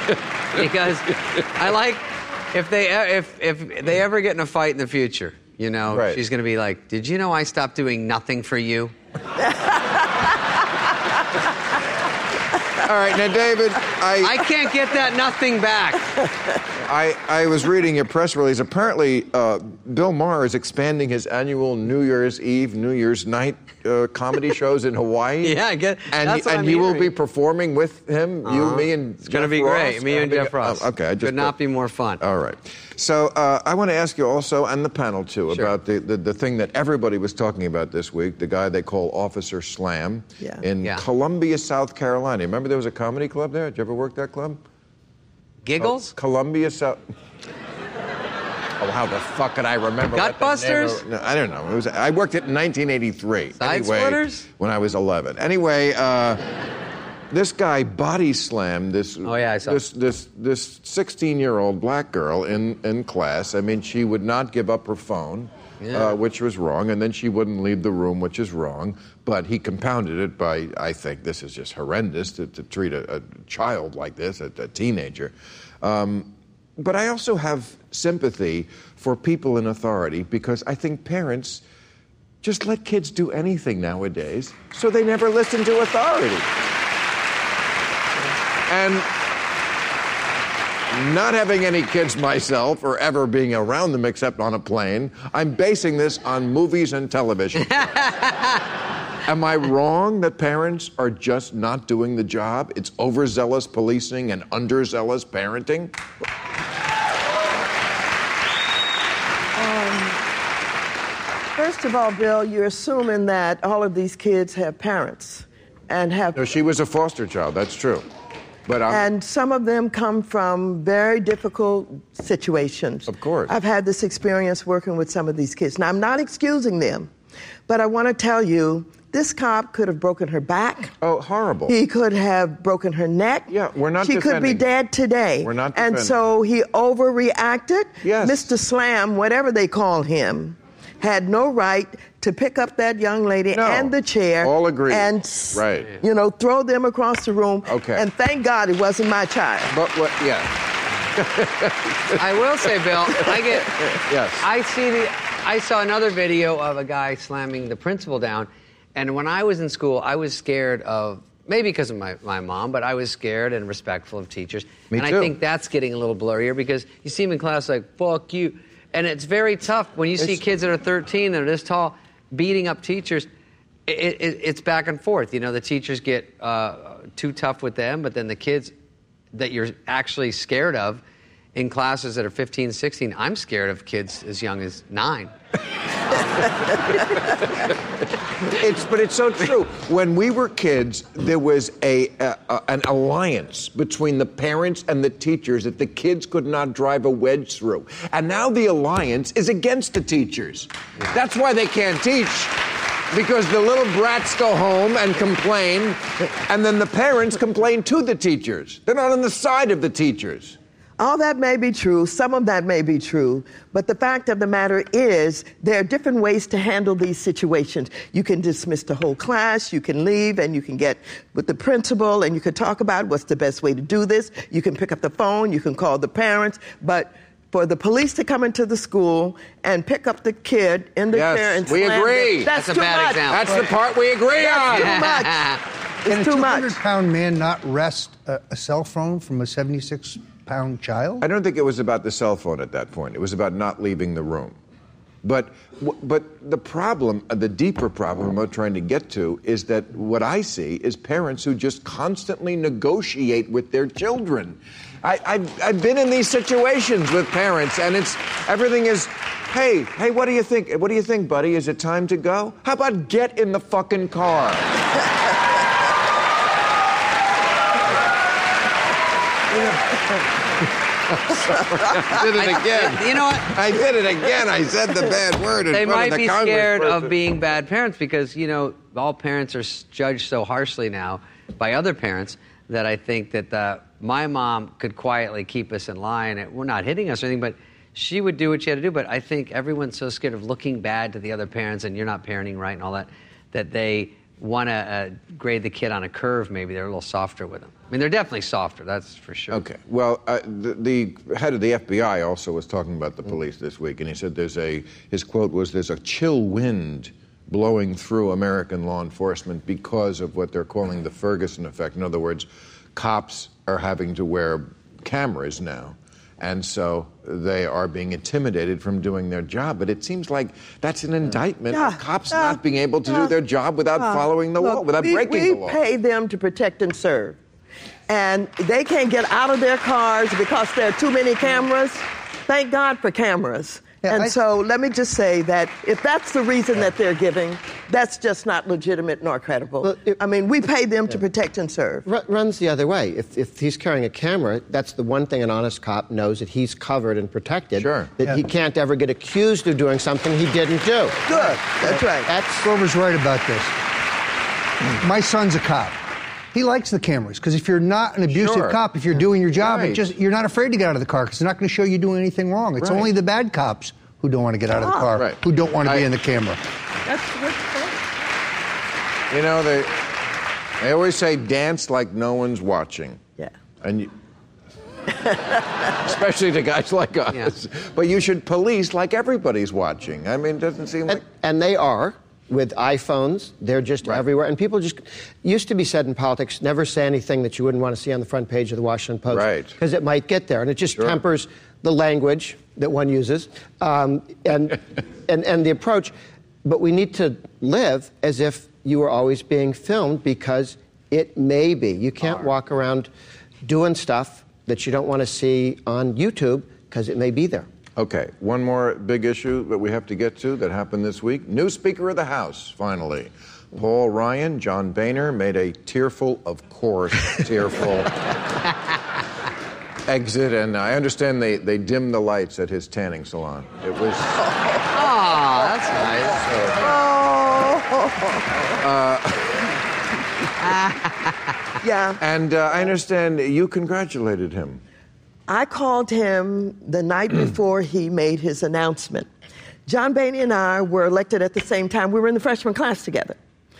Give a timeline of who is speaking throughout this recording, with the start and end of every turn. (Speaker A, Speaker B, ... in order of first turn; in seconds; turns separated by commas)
Speaker A: 0.5-8.9, Speaker B: 5.9-6.2, Speaker B: 12.8-14.4, Speaker A: 14.2-16.2, Speaker B: 16.8-31.6, Speaker A: 25.4-27.1, Speaker A: 28.4-32.2, Speaker B: 32.2-44.6, Speaker A: 45.6-46.1, Speaker B: 45.8-47.0, Speaker B: 48.8-56.4, Speaker A: 50.1-51.0, Speaker A: 53.6-54.5, Speaker B: 57.3-81.6, Speaker A: 59.2-59.8, Speaker A: 65.8-66.2, Speaker B: 82.4-86.5, Speaker B: 88.7-89.1, Speaker B: 90.9-97.9, Speaker A: 97.7-98.6, Speaker B: 99.2-105.9, Speaker C: 109.5-110.2, Speaker C: 111.5-116.5, Speaker B: 116.3-118.0, Speaker B: 118.7-119.0, Speaker C: 118.9-127.1, Speaker B: 123.1-123.5, Speaker C: 127.7-130.9, Speaker B: 131.0-131.8, Speaker C: 131.7-133.5, Speaker B: 133.5-134.6, Speaker C: 134.0-149.7, Speaker B: 135.4-136.2, Speaker B: 138.0-138.5, Speaker B: 143.5-146.0, Speaker B: 147.7-148.0, Speaker B: 149.7-150.6, Speaker B: 151.1-154.4, Speaker A: 152.2-173.3, Speaker B: 164.9-165.3, Speaker B: 170.2-170.4, Speaker A: 173.8-178.7, Speaker A: 179.3-181.0, Speaker A: 181.5-185.3, Speaker A: 186.1-186.5, Speaker B: 188.5-202.5, Speaker B: 203.1-210.6, Speaker C: 211.0-233.3, Speaker B: 231.1-232.5, Speaker A: 232.5-233.7, Speaker B: 233.3-235.0, Speaker C: 234.4-235.5, Speaker A: 234.7-235.6, Speaker C: 236.0-236.8, Speaker D: 236.1-241.2, Speaker B: 241.2-244.6, Speaker B: 245.2-264.7, Speaker B: 269.5-270.1, Speaker B: 271.1-277.2, Speaker A: 272.3-273.5, Speaker A: 275.7-299.6, Speaker B: 299.5-325.8, Speaker C: 321.7-323.3, Speaker C: 323.9-327.4, Speaker C: 328.1-342.0, Speaker D: 334.0-334.3, Speaker E: 339.8-340.2, Speaker E: 342.0-351.6, Speaker B: 347.8-348.1, Speaker C: 351.3-352.3, Speaker E: 352.2-352.6, Speaker D: 352.6-353.8, Speaker D: 355.0-356.0, Speaker D: 356.5-366.6, Speaker B: 358.3-358.8, Speaker B: 359.6-360.0, Speaker B: 362.8-363.1, Speaker C: 364.8-365.1, Speaker B: 365.1-366.1, Speaker C: 367.1-367.9, Speaker B: 369.3-369.9, Speaker B: 370.8-373.2, Speaker B: 373.8-374.1, Speaker B: 376.0-381.2, Speaker E: 381.1-403.1, Speaker B: 389.3-389.7, Speaker E: 403.6-407.7, Speaker B: 407.9-418.3, Speaker B: 420.1-424.4, Speaker A: 424.9-426.4, Speaker B: 426.4-426.8, Speaker C: 426.8-428.4, Speaker B: 428.8-429.6, Speaker A: 430.8-431.1, Speaker C: 431.8-432.2, Speaker B: 432.2-434.8, Speaker C: 435.5-439.3, Speaker C: 439.9-443.4